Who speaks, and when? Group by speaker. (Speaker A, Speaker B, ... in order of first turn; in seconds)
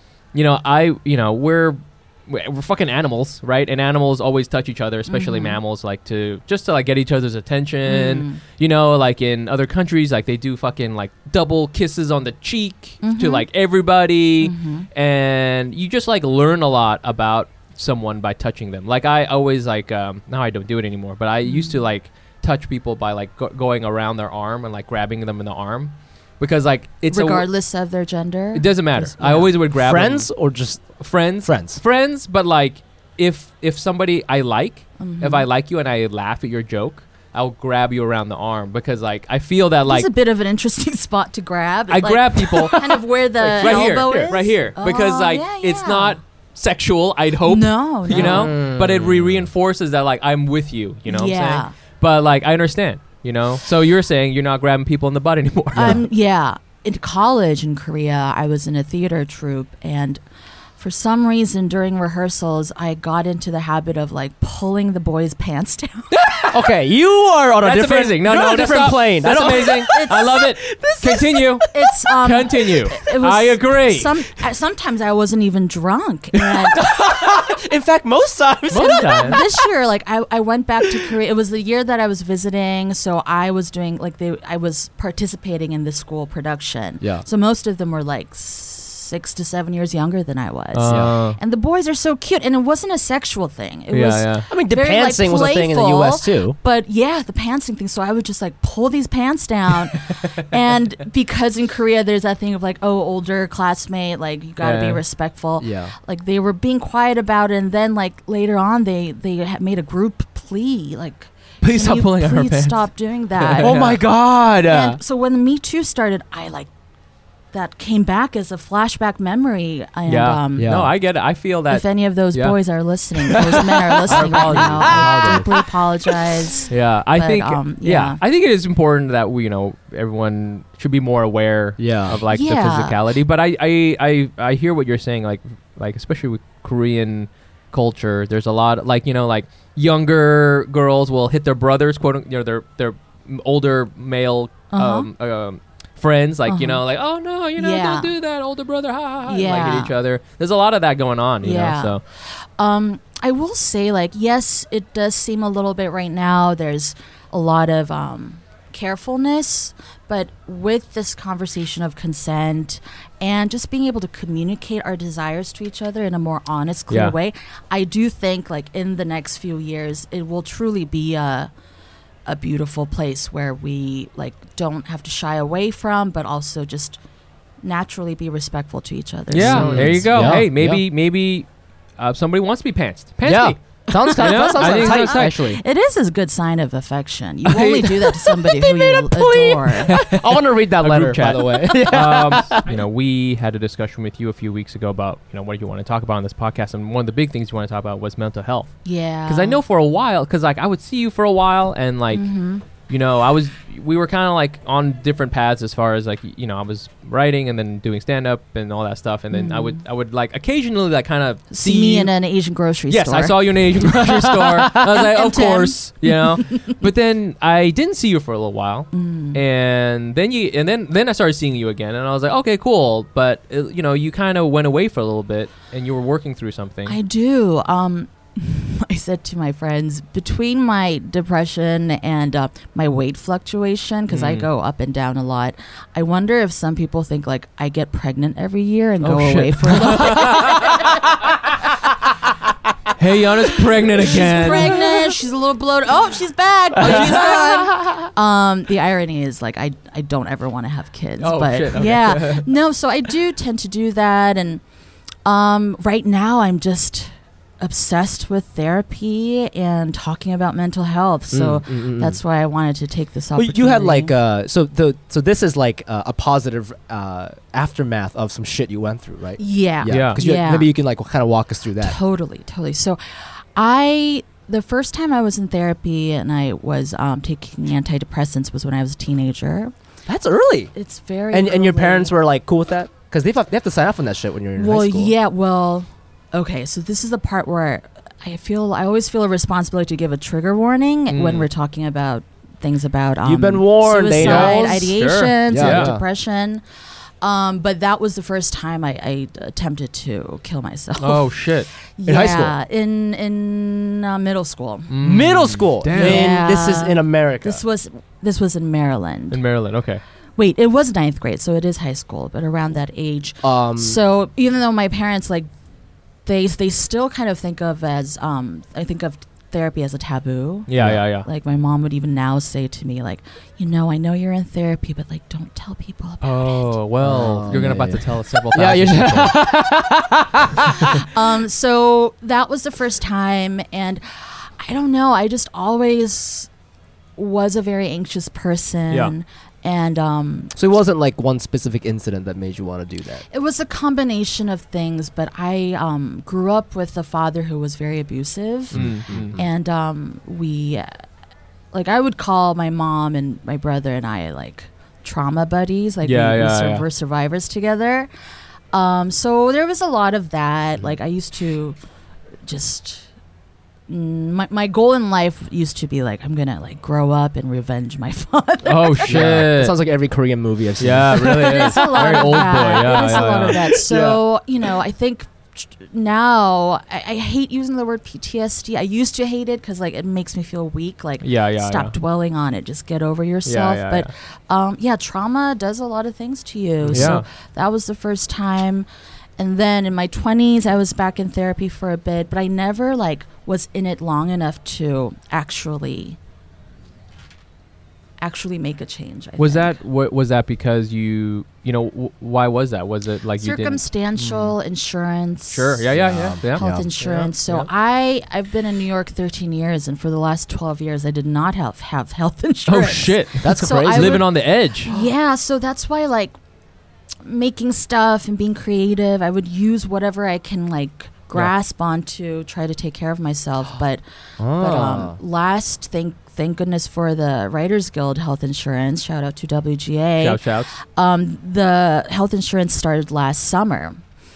Speaker A: 0.3-27.5, 28.6-30.3, 31.0-40.1, 41.9-56.0, 66.1-66.7, 67.6-74.2, 78.7-79.4, 90.7-91.4, 93.9-94.5, 104.6-105.0, 111.6-112.8, 113.4-114.0, 120.1-122.6, 124.0-125.6, 126.7-152.0, 179.3-181.5, 182.0-185.6, 187.6-187.9, 189.9-212.1, 212.9-227.0, 234.1-234.5, 239.0-240.9, 243.0-245.1, 246.8-247.7, 251.2-252.5, 269.9-270.2, 291.1-291.5, 294.2-295.9, 301.0-301.7, 304.9-306.4, 309.3-310.0, 320.7-321.3, 326.2-329.4, 348.7-349.4, 356.0-356.9, 368.6-369.8, 370.8-373.7, 381.2-381.9, 383.5-384.1, 386.9-387.2, 399.4-403.8, 405.5-407.7, 412.7-414.9, 430.2-430.7
Speaker B: 5.1-5.6, 7.9-8.4, 13.0-13.5, 14.4-14.9, 21.4-21.8, 27.1-29.5, 35.0-35.5, 39.9-46.2, 47.4-48.5, 51.1-51.7, 55.8-60.2, 60.8-66.2, 69.3-76.9, 78.9-113.8, 114.7-116.7, 117.5-120.8, 121.7-128.2, 132.3-133.0, 144.7-145.1, 146.5-146.8, 147.6-148.1, 149.3-149.9, 151.4-171.5, 172.3-177.0, 177.6-180.4, 183.9-190.0, 198.8-199.6, 202.1-202.7, 209.3-209.8, 211.5-213.4, 214.7-216.8, 218.9-219.4, 226.9-241.2, 243.9-254.6, 255.2-257.1, 257.6-264.1, 269.4-270.7, 271.8-279.7, 280.7-282.2, 284.6-296.6, 297.2-304.9, 305.9-309.4, 310.4-315.5, 316.3-326.8, 330.9-336.5, 337.2-340.5, 343.3-351.0, 351.7-358.1, 358.7-361.8, 362.5-363.1, 363.9-369.2, 371.1-388.9, 389.4-396.2, 398.2-399.8, 403.4-416.4, 417.2-424.0, 424.6-434.0
Speaker C: 29.7-31.8, 43.4-44.4, 48.1-49.5, 55.7-56.0, 66.5-71.5, 76.8-79.5, 90.9-91.1, 94.5-96.6, 105.6-105.9, 113.6-115.0, 120.6-120.9, 124.1-125.6, 131.8-132.2, 179.4-180.8, 183.2-185.6, 187.8-192.7, 214.1-214.6, 246.9-247.2, 261.3-262.2, 263.4-272.0, 280.1-280.7, 281.3-285.1, 293.2-294.7, 295.5-296.0, 302.1-302.6, 305.0-307.6, 313.4-314.0, 320.8-321.1, 327.0-331.1, 340.6-343.2, 348.7-349.4, 369.1-374.2, 386.8-387.2, 404.2-404.5, 405.9-406.9, 413.4-414.3, 424.4-425.2